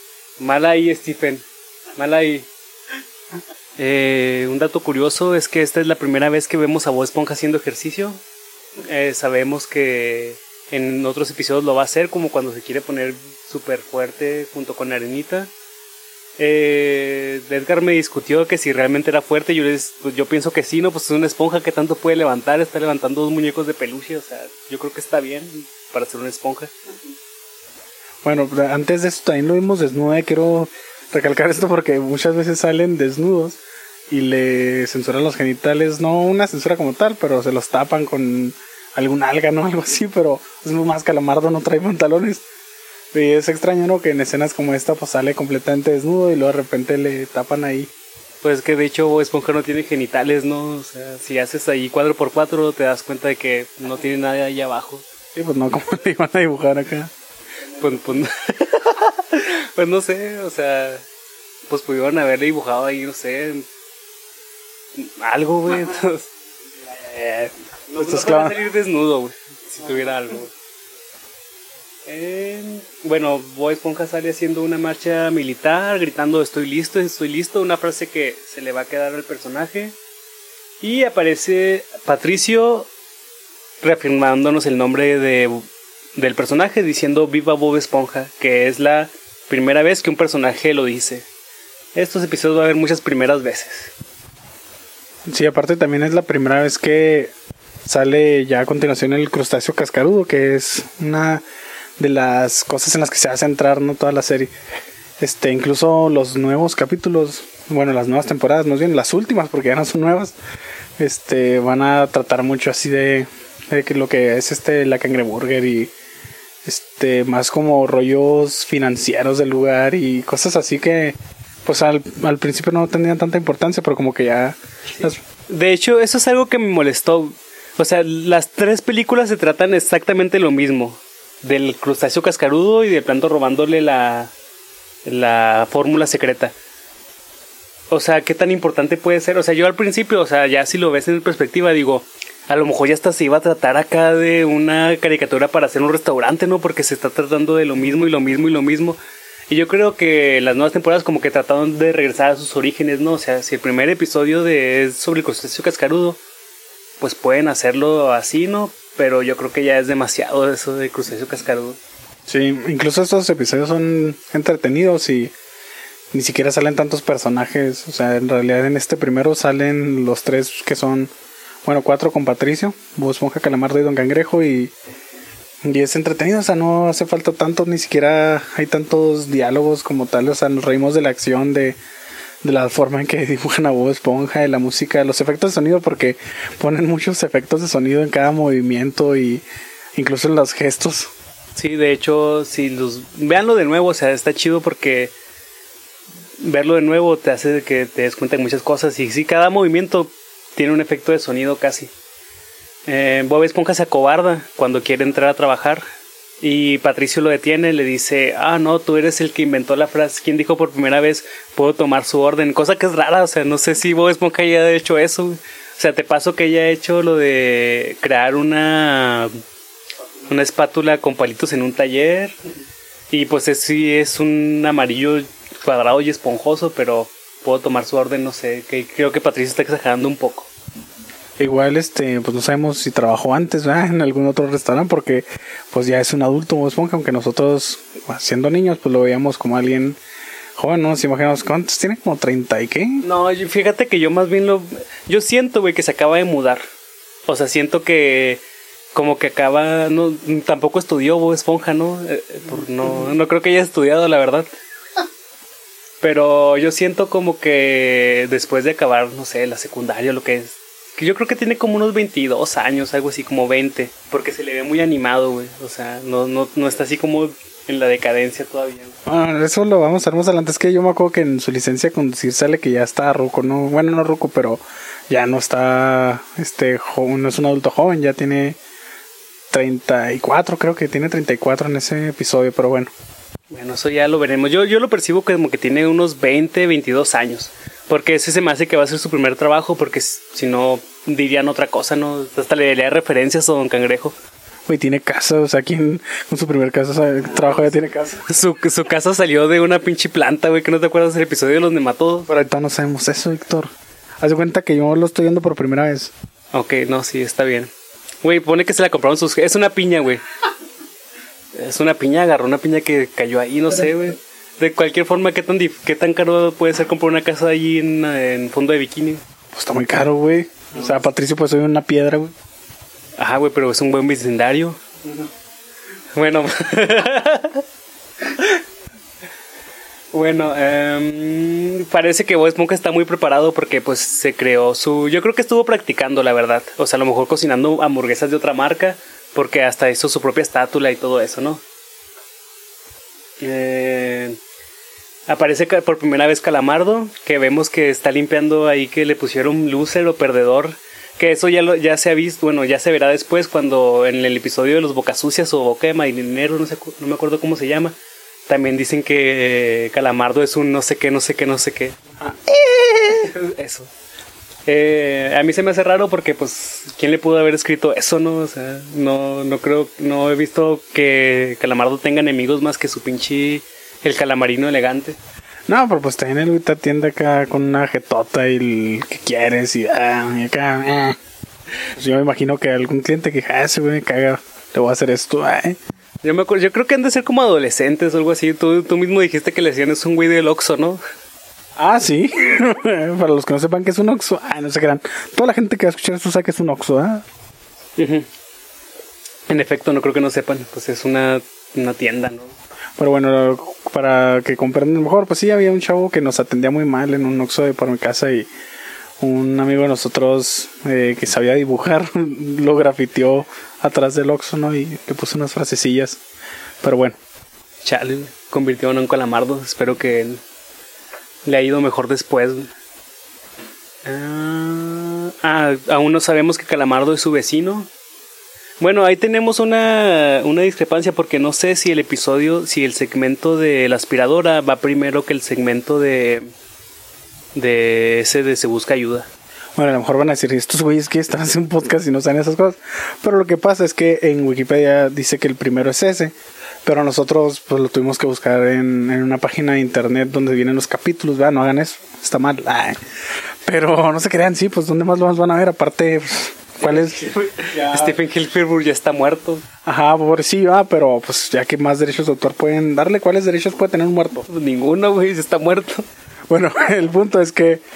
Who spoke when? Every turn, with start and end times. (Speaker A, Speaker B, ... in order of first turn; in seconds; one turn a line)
Speaker A: 0.4-1.4
Speaker A: 2.0-2.5
Speaker A: 3.8-8.2
Speaker A: 8.8-15.5
Speaker A: 16.4-26.7
Speaker B: 28.2-33.6
Speaker B: 34.1-42.4
Speaker B: 43.1-47.9
Speaker A: 48.4-55.0
Speaker B: 55.4-57.1
Speaker A: 57.8-61.0
Speaker A: 61.7-63.7
Speaker A: 65.0-66.3
Speaker A: 67.1-70.5
Speaker B: 68.0-68.6
Speaker A: 72.1-80.0
Speaker A: 80.8-82.9
Speaker A: 83.8-85.6
Speaker A: 86.2-91.3
Speaker A: 92.0-93.9
Speaker B: 95.3-97.3
Speaker B: 97.9-101.4
Speaker B: 102.0-104.5
Speaker B: 105.2-110.4
Speaker B: 111.0-115.9
Speaker B: 116.7-125.2
Speaker A: 125.0-134.3
Speaker A: 135.1-136.5
Speaker A: 137.9-149.0
Speaker A: 149.5-156.2
Speaker A: 157.0-161.8
Speaker B: 162.3-165.3
Speaker B: 166.1-171.1
Speaker B: 171.7-174.7
Speaker B: 175.7-181.8
Speaker B: 182.4-189.4
Speaker B: 190.0-191.1
Speaker A: 191.6-195.1
Speaker A: 196.4-201.9
Speaker A: 202.9-205.8
Speaker A: 206.4-219.3
Speaker A: 220.3-222.4
Speaker A: 223.1-230.5
Speaker B: 231.4-240.0
Speaker B: 240.6-243.0
Speaker A: 243.0-246.6
Speaker A: 247.3-248.4
Speaker A: 248.9-254.5
Speaker A: 256.0-269.0
Speaker B: 269.1-278.6
Speaker B: 279.5-282.9
Speaker A: 283.5-294.1
Speaker B: 294.7-298.3
Speaker A: 297.3-297.7
Speaker A: 298.2-302.3
Speaker B: 302.3-306.1
Speaker A: 306.5-307.7
Speaker A: 308.2-310.2
Speaker A: 311.6-319.2
Speaker B: 319.5-322.3
Speaker A: 323.2-325.2
Speaker A: 326.1-327.6
Speaker A: 328.3-328.6
Speaker A: 330.1-341.6
Speaker A: 343.4-344.4
Speaker A: 345.3-358.0
Speaker A: 358.5-362.0
Speaker B: 362.2-363.1
Speaker A: 362.7-363.9
Speaker A: 364.7-375.2
Speaker B: 375.7-381.2
Speaker B: 381.9-385.8
Speaker A: 386.2-391.0
Speaker B: 391.8-397.2
Speaker A: 398.0-398.3
Speaker A: 399.5-402.6
Speaker B: 403.0-408.5
Speaker B: 409.2-416.2
Speaker B: 416.8-417.2
Speaker A: 417.8-420.4
Speaker A: 421.4-422.7
Speaker A: 424.1-427.9
Speaker A: 428.8-436.4
Speaker A: 437.6-439.3
Speaker B: 439.8-446.3
Speaker B: 446.9-453.0
Speaker B: 453.6-458.2
Speaker A: 456.8-459.6
Speaker B: 459.9-464.5
Speaker A: 464.5-466.1
Speaker B: 466.5-467.8